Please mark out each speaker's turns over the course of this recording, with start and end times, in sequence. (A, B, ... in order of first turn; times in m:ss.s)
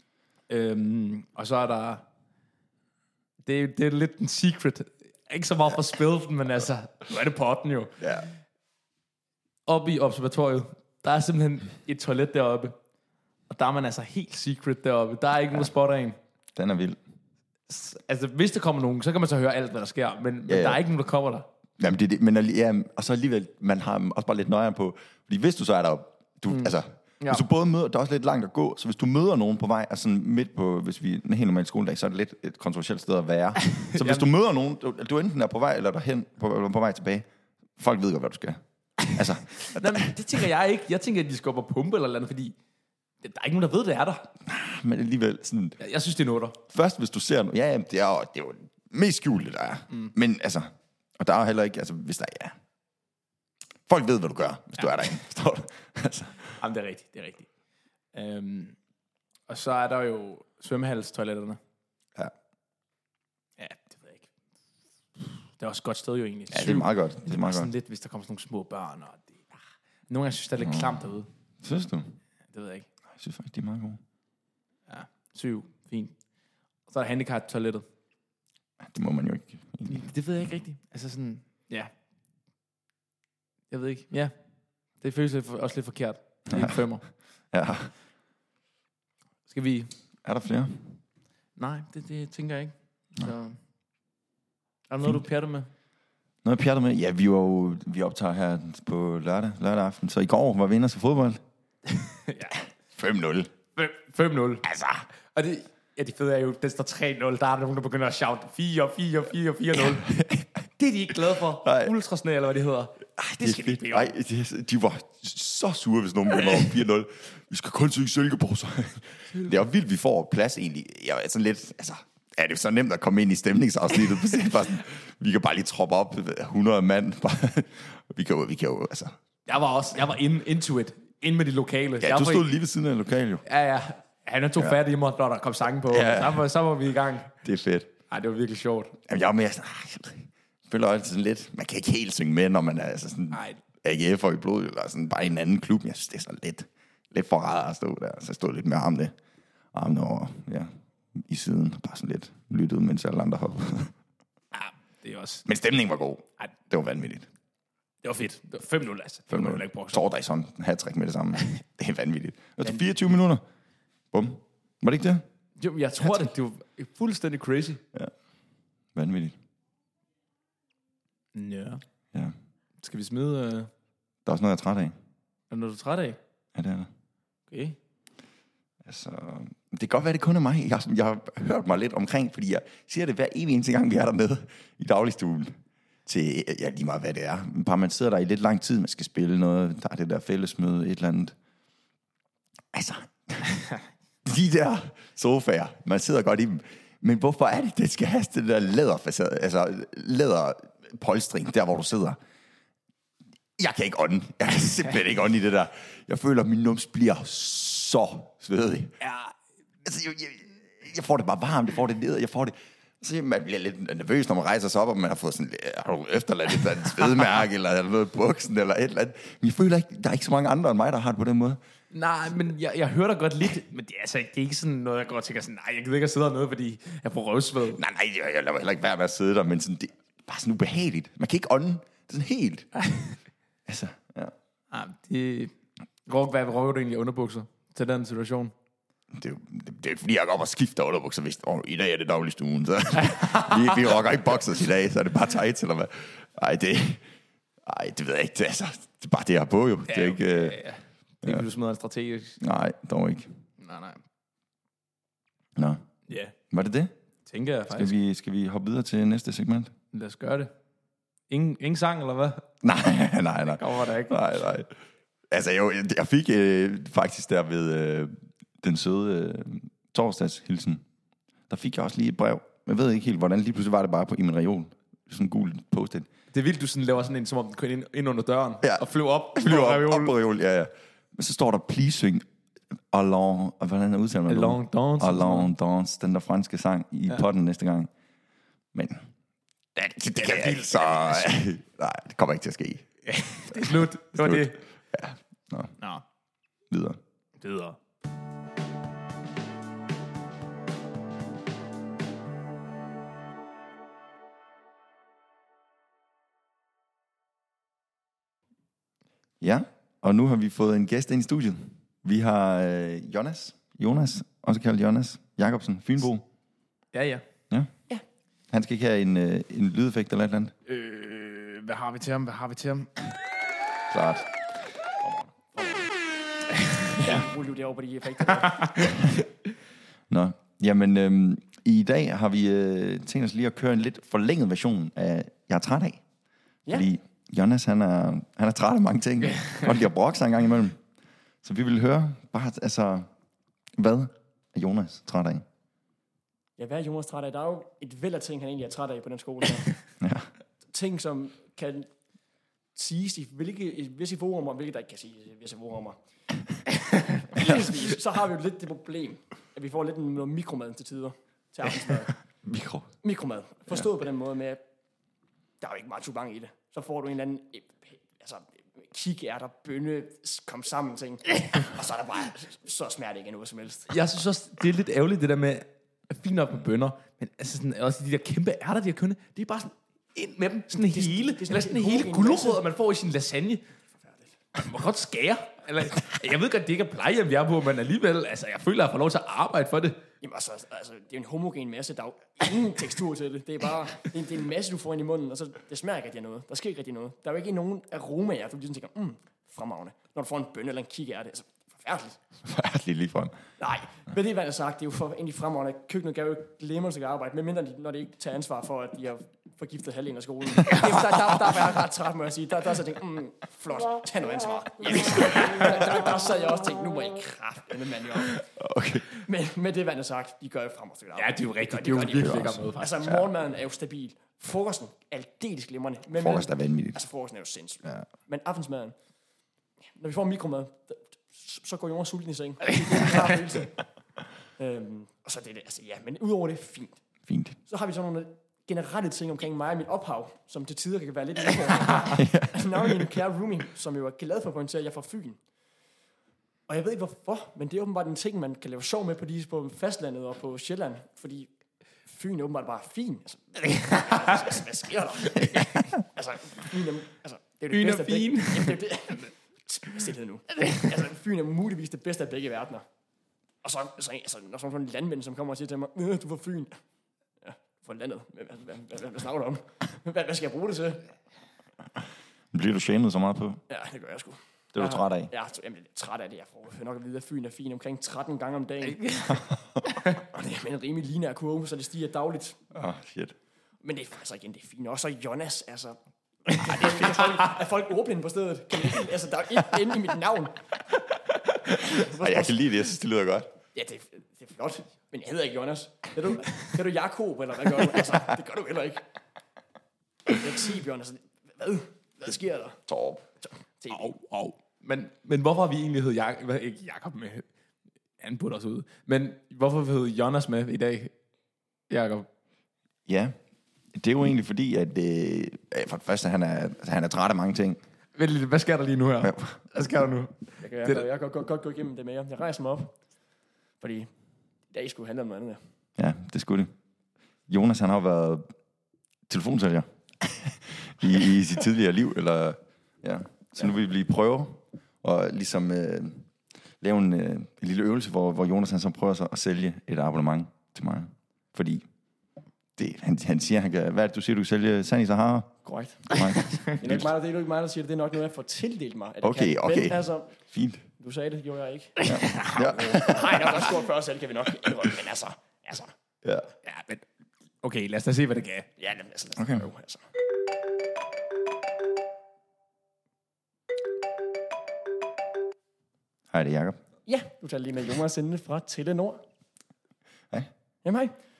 0:00.5-0:02.0 A
0:03.4-0:08.0 A
0:08.0-0:08.3 B
0:09.7-0:12.8 A
0:13.5-0:16.2 A
0:16.6-0:17.0 B
0:17.7-0:21.5 A
0:20.5-0:20.8 B
0:21.8-0:37.3 B
0:26.5-0:27.4 A
0:34.0-0:34.3 A
0:37.8-0:40.2 B
0:39.7-0:42.6 A
0:43.2-0:44.3 A
0:44.4-0:45.8 B
0:45.8-0:46.6 A
0:46.7-0:52.6 B
0:53.9-0:56.6 B
0:56.6-0:57.5 A
0:58.1-0:58.8 A
0:59.5-1:01.6 A
1:03.6-1:04.3 A
1:05.2-1:09.4 A
1:06.5-1:07.7 B
1:10.1-1:11.3 A
1:10.6-1:11.0 B
1:11.6-1:12.2 B
1:12.5-1:12.9 A
1:13.1-1:14.0 B
1:14.9-1:16.1 A
1:16.9-1:17.9 A
1:18.8-1:20.1 B
1:19.9-1:21.9 A
1:23.7-1:24.3 A
1:25.0-1:27.0 A
1:26.5-1:26.8 B
1:27.5-1:27.9 B
1:29.5-1:29.9 A
1:30.2-1:30.8 B
1:31.6-1:33.6 A
1:34.9-1:35.7 A
1:36.4-1:41.4 B
1:41.9-1:42.6 A
1:43.0-1:43.5 B
1:43.8-1:44.7 A
1:44.7-1:45.1 B
1:45.3-1:50.2 A
1:49.8-1:50.4 B
1:50.8-1:54.1 A
1:51.6-1:51.9 B
1:53.2-2:09.2 B
1:59.3-1:59.6 A
2:09.5-2:12.6 A
2:12.0-2:13.4 B
2:13.4-2:17.3 A
2:15.9-2:16.5 B
2:17.4-2:17.9 B
2:18.1-2:18.9 A
2:19.1-2:29.1 B
2:23.3-2:23.6 A
2:29.7-2:33.9 B
2:34.5-2:35.4 A
2:35.5-2:37.3 B
2:38.0-2:40.1 A
2:39.3-2:43.4 B
2:44.1-2:45.2 B
2:45.6-2:47.8 A
2:49.0-2:49.4 B
2:51.3-2:51.8 A
2:52.8-2:53.7 A
2:54.2-2:55.0 B
2:55.5-2:56.2 A
2:56.6-2:56.9 B
2:57.5-2:57.8 A
2:58.8-3:11.4 B
3:12.7-3:13.6 B
3:14.2-3:22.2 B
3:23.6-3:29.0 B
3:29.0-3:29.3 A
3:29.8-3:41.6 B
3:41.9-3:47.8 A
3:47.8-3:52.7 B
3:52.8-3:53.2 A
3:53.7-3:54.3 B
3:54.7-3:55.5 A
3:56.1-3:58.5 A
3:59.1-4:07.0 B
4:03.1-4:03.8 A
4:07.6-4:10.6 B
4:09.9-4:12.4 A
4:12.4-4:13.3 B
4:13.6-4:14.0 A
4:15.6-4:15.8 B
4:16.1-4:16.3 A
4:16.5-4:16.9 B
4:17.3-4:17.9 A
4:17.7-4:19.7 B
4:19.9-4:20.5 A
4:21.3-4:22.4 A
4:22.6-4:24.7 B
4:23.6-4:24.5 A
4:25.3-4:30.8 B
4:31.5-4:36.1 B
4:36.3-4:40.1 A
4:38.6-4:42.2 B
4:42.9-4:47.9 B
4:44.3-4:45.5 A
4:48.7-4:49.1 B
4:49.8-4:52.9 B
4:50.2-4:51.4 A
4:53.1-4:54.6 A
4:53.5-4:55.8 B
4:56.7-4:57.0 B
4:57.4-4:57.8 A
5:09.4-5:16.2 B
5:16.9-5:17.2 A
5:18.5-5:20.5 B
5:20.7-5:23.1 A
5:23.9-5:24.3 B
5:25.0-5:25.9 C
5:27.0-5:28.9 C
5:28.8-5:29.2 B
5:30.1-5:36.0 B
5:36.7-5:40.8 B
5:41.4-5:43.1 B
5:43.8-5:45.4 B
5:46.6-5:49.7 C
5:50.0-5:50.3 B
5:50.7-5:51.9 C
5:52.8-5:56.0 C
5:57.3-6:02.1 C
6:02.4-6:02.9 B
6:03.0-6:04.6 C
6:05.6-6:13.9 C
6:13.9-6:23.6 A
6:20.7-6:22.6 C
6:24.6-6:30.0 A
6:30.2-6:42.2 C
6:42.4-6:43.4 B
6:43.6-6:58.4 C
6:58.6-6:59.1 B
6:59.1-7:09.0 C
7:01.2-7:03.1 A
7:02.2-7:03.2 B
7:06.1-7:07.0 B
7:10.0-7:13.8 C
7:14.6-7:17.0 C
7:17.3-7:17.6 B
7:17.7-7:25.4 C
7:22.2-7:23.0 B
7:26.7-7:31.5 C
7:32.0-7:42.8 C
7:37.7-7:38.8 A
7:43.6-7:46.8 C
7:47.4-7:51.1 C
7:52.5-7:53.6 B
7:53.7-7:59.0 C
7:54.7-7:55.3 B
7:58.9-7:59.4 A
7:59.3-7:59.8 B
8:00.2-8:02.6 C
8:02.7-8:03.4 B
8:03.8-8:10.6 C
8:11.7-8:12.8 C
8:11.9-8:13.5 B
8:13.7-8:19.0 C
8:20.3-8:22.8 C
8:22.9-8:23.2 B
8:23.4-8:24.2 C
8:23.9-8:27.4 A
8:28.2-8:31.1 A
8:31.9-8:32.3 A
8:33.1-8:33.4 B
8:34.0-8:37.8 B
8:38.2-8:41.0 A
8:39.2-8:39.6 B
8:40.6-8:43.0 C
8:43.8-8:44.1 C
8:44.7-8:45.6 C
8:46.0-8:46.7 B
8:47.5-8:48.5 B
8:49.3-8:56.3 B
8:56.8-9:01.8 B
9:02.8-9:05.6 B
9:05.6-9:06.2 C
9:06.1-9:07.1 B
9:06.8-9:10.4 C
9:09.2-9:10.9 B
9:11.0-9:15.9 C
9:12.0-9:12.8 A
9:12.0-9:13.6 B
9:16.2-9:16.5 B
9:16.6-9:17.0 A
9:17.6-9:18.7 A
9:18.8-9:20.0 C
9:19.4-9:19.7 B
9:26.3-9:26.8 B
9:27.1-9:29.2 C
9:30.8-9:31.2 C